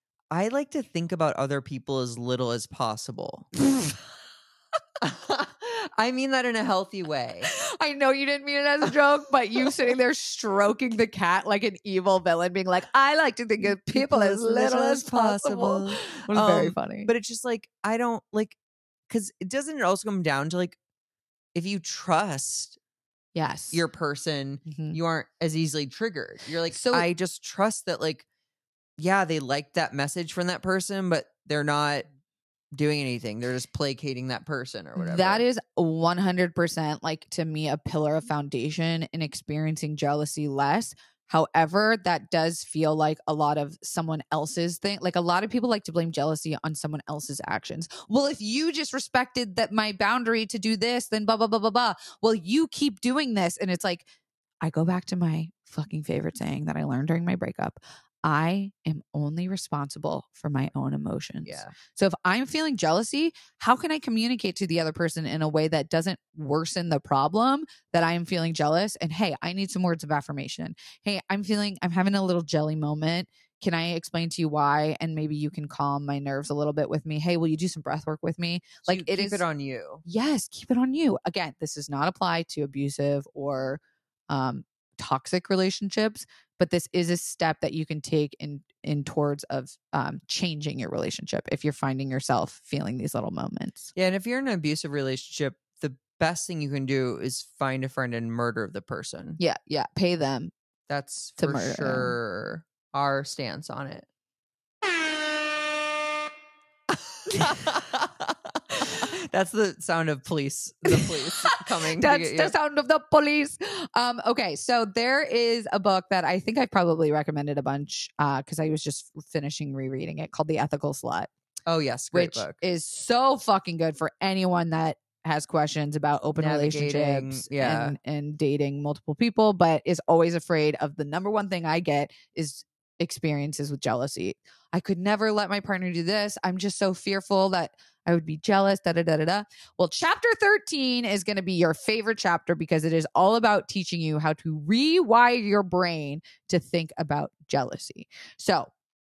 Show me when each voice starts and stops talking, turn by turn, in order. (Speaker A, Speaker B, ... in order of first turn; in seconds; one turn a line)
Speaker A: 0.3-3.5
Speaker A: 5.0-7.5
Speaker B: 7.5-17.1
Speaker A: 13.9-18.6
Speaker A: 19.1-20.8
Speaker A: 21.5-22.8
Speaker B: 23.3-23.8
Speaker A: 23.7-28.2
Speaker B: 24.6-25.0
Speaker B: 26.7-27.1
Speaker A: 29.0-32.0
Speaker A: 32.7-35.4
Speaker B: 35.0-54.0
Speaker B: 54.6-79.4
Speaker A: 61.4-61.7
Speaker A: 78.9-80.0
Speaker B: 80.0-93.9
Speaker A: 93.9-99.4
Speaker B: 99.4-100.5
Speaker A: 100.9-104.1
Speaker B: 101.4-102.2
Speaker A: 107.2-112.5
Speaker B: 110.9-121.3
Speaker A: 121.7-122.6
Speaker B: 122.1-148.7
Speaker A: 126.4-128.0